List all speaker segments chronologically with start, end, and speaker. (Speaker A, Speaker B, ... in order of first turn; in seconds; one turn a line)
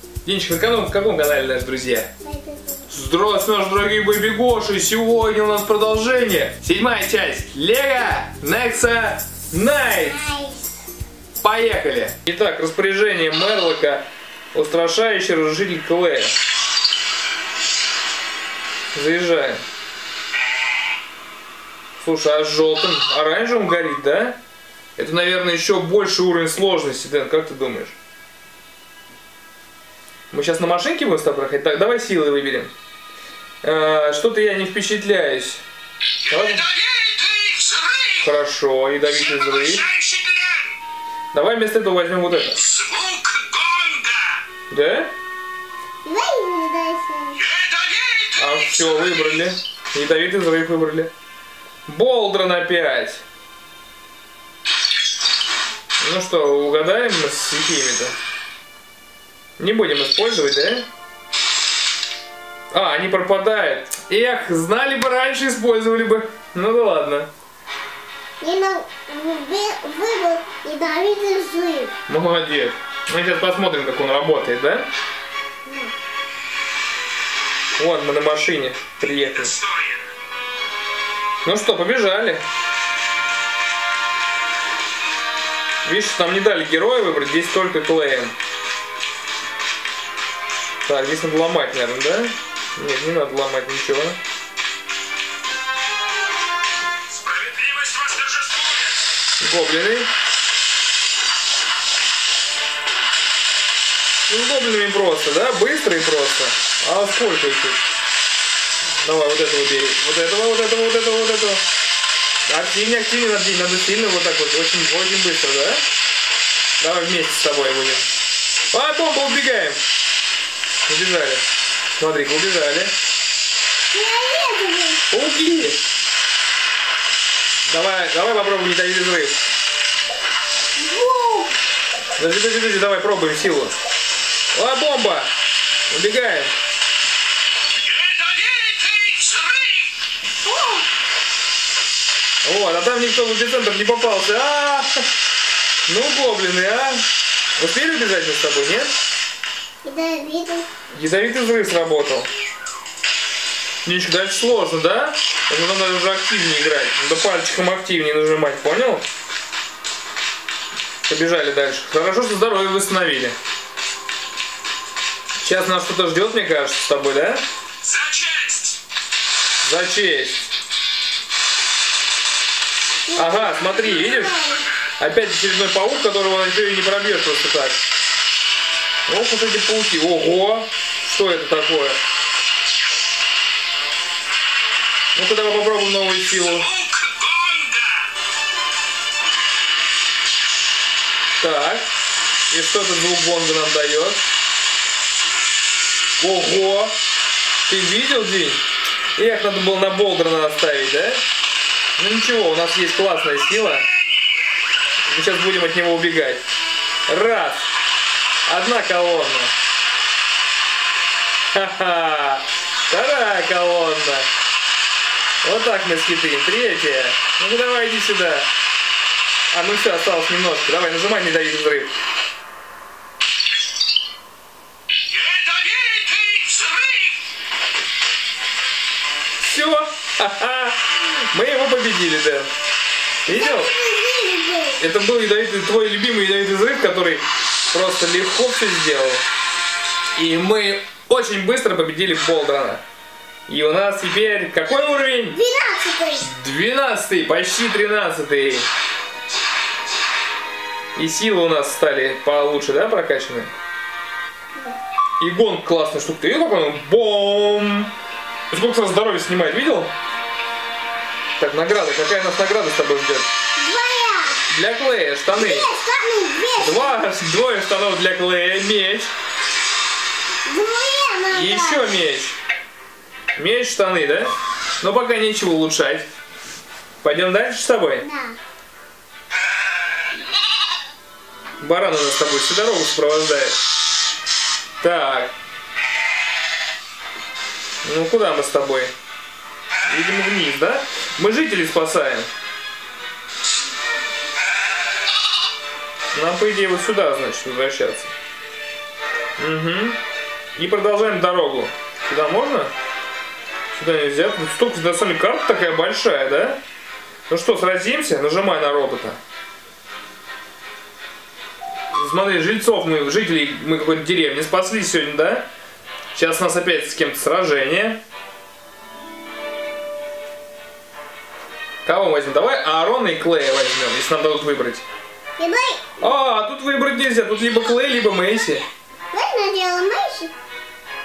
Speaker A: 0.2-2.1
Speaker B: 2.2-2.9
Speaker A: 2.9-10.2
Speaker B: 10.0-10.7
Speaker A: 11.4-16.3
Speaker A: 18.9-19.6
Speaker A: 22.0-24.4
Speaker A: 25.0-28.0
Speaker A: 30.3-32.7
Speaker A: 33.6-35.6
Speaker A: 36.3-36.7
Speaker C: 37.2-37.8
Speaker A: 38.2-39.9
Speaker A: 41.3-42.8
Speaker C: 43.0-44.2
Speaker A: 44.7-45.1
Speaker B: 46.0-47.5
Speaker C: 47.7-48.2
Speaker A: 48.4-51.1
Speaker A: 51.9-53.2
Speaker A: 56.0-58.1
Speaker A: 59.6-60.9
Speaker A: 62.7-67.3
Speaker B: 68.4-71.9
Speaker A: 72.1-74.9
Speaker B: 75.7-75.9
Speaker A: 77.8-79.6
Speaker A: 81.4-82.4
Speaker A: 85.8-88.3
Speaker A: 90.9-94.2
Speaker C: 97.3-98.7
Speaker A: 99.4-100.1
Speaker A: 104.3-107.8
Speaker A: 109.0-111.6
Speaker A: 112.5-115.8
Speaker A: 116.8-118.1
Speaker A: 118.7-119.8
Speaker A: 120.9-121.4
Speaker A: 122.0-122.9
Speaker B: 123.9-125.0
Speaker A: 125.1-125.8
Speaker A: 127.7-129.4
Speaker B: 130.8-131.5
Speaker A: 132.2-133.8
Speaker A: 134.5-135.3
Speaker A: 135.9-136.5
Speaker C: 138.0-139.8
Speaker B: 140.5-140.8
Speaker A: 142.4-145.0
Speaker A: 145.9-148.9
Speaker B: 149.8-150.7
Speaker A: 150.9-152.3
Speaker A: 153.8-159.1
Speaker A: 161.1-163.4
Speaker A: 165.4-167.4
Speaker C: 168.2-168.5
Speaker A: 169.6-170.5
Speaker B: 173.1-174.7
Speaker A: 173.2-174.4
Speaker A: 175.0-177.8
Speaker A: 179.1-182.0
Speaker A: 185.2-186.8
Speaker C: 187.0-187.9
Speaker A: 191.4-191.9
Speaker A: 192.5-194.3
Speaker A: 196.2-196.9
Speaker A: 197.7-198.6
Speaker A: 199.2-201.2
Speaker A: 202.0-203.9
Speaker A: 205.1-206.5
Speaker A: 207.1-207.7
Speaker A: 208.5-209.5
Speaker A: 211.5-214.3
Speaker A: 215.4-218.5
Speaker A: 219.5-221.9
Speaker C: 225.2-227.1
Speaker A: 229.4-232.5
Speaker A: 233.2-233.7
Speaker B: 233.3-234.8
Speaker A: 234.8-239.2
Speaker A: 240.2-242.8
Speaker A: 243.5-245.4
Speaker B: 245.3-246.3
Speaker A: 246.2-248.7
Speaker A: 250.9-253.5
Speaker A: 255.2-257.9
Speaker A: 258.5-259.9
Speaker A: 261.4-263.3
Speaker B: 263.6-264.4
Speaker A: 264.5-265.7
Speaker B: 265.3-267.1
Speaker A: 266.6-269.1
Speaker B: 270.4-271.9
Speaker A: 271.3-272.4
Speaker A: 273.4-276.1
Speaker A: 277.0-278.1
Speaker B: 278.0-278.4
Speaker A: 281.6-283.6
Speaker A: 284.8-285.3
Speaker A: 287.8-288.9
Speaker A: 289.9-292.3
Speaker A: 296.1-298.1
Speaker A: 299.4-300.0
Speaker A: 300.6-302.7
Speaker A: 303.7-306.6
Speaker A: 307.3-309.2
Speaker A: 311.9-315.5
Speaker A: 316.1-318.0
Speaker A: 321.9-324.9
Speaker B: 325.4-325.8
Speaker A: 326.0-328.7
Speaker B: 329.1-330.3